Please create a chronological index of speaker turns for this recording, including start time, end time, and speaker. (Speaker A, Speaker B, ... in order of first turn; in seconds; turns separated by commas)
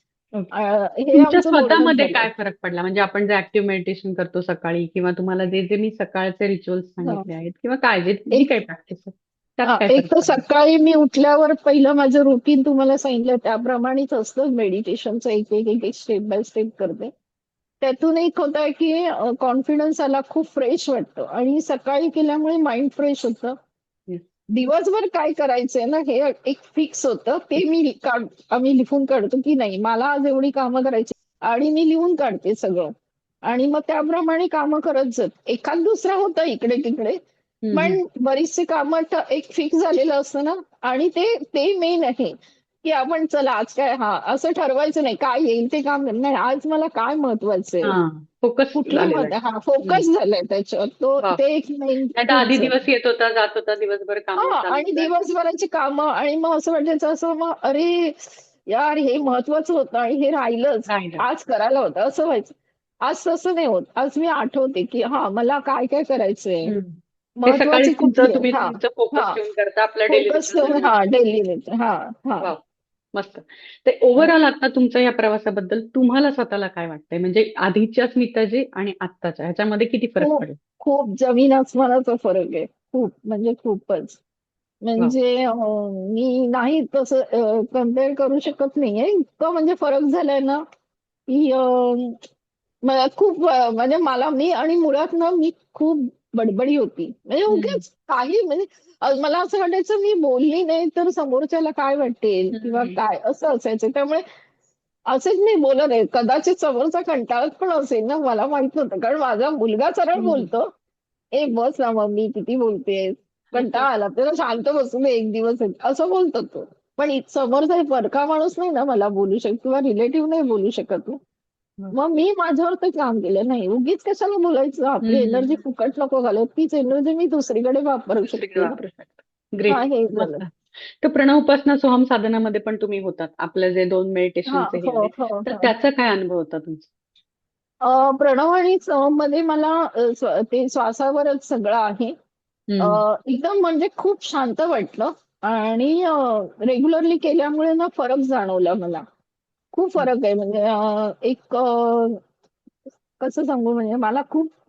Speaker A: 0.5-2.3, Speaker B: 1.1-10.4, Speaker A: 9.7-17.1, Speaker A: 17.8-23.5, Speaker A: 24.5-32.9, Speaker A: 33.5-37.2, Speaker B: 37.6-38.0, Speaker A: 37.7-47.9, Speaker B: 47.8-50.0, Speaker A: 48.8-52.8, Speaker B: 52.1-55.1, Speaker A: 54.4-62.5, Speaker B: 60.9-61.2, Speaker A: 63.0-66.7, Speaker B: 66.6-70.9, Speaker A: 67.4-69.4, Speaker A: 70.1-72.5, Speaker B: 73.1-80.6, Speaker A: 80.2-84.2, Speaker A: 84.8-90.6, Speaker A: 91.3-92.2, Speaker A: 92.8-104.2, Speaker B: 97.5-97.8, Speaker B: 102.5-103.0, Speaker A: 105.1-110.7, Speaker B: 110.2-110.5, Speaker A: 111.3-121.2, Speaker B: 113.5-113.9, Speaker A: 121.9-128.8, Speaker B: 125.0-125.6, Speaker B: 128.3-136.9, Speaker A: 129.7-130.4, Speaker A: 134.5-135.7, Speaker A: 137.8-142.1, Speaker B: 142.7-143.0, Speaker A: 142.8-149.0, Speaker A: 149.7-152.2, Speaker A: 153.2-154.5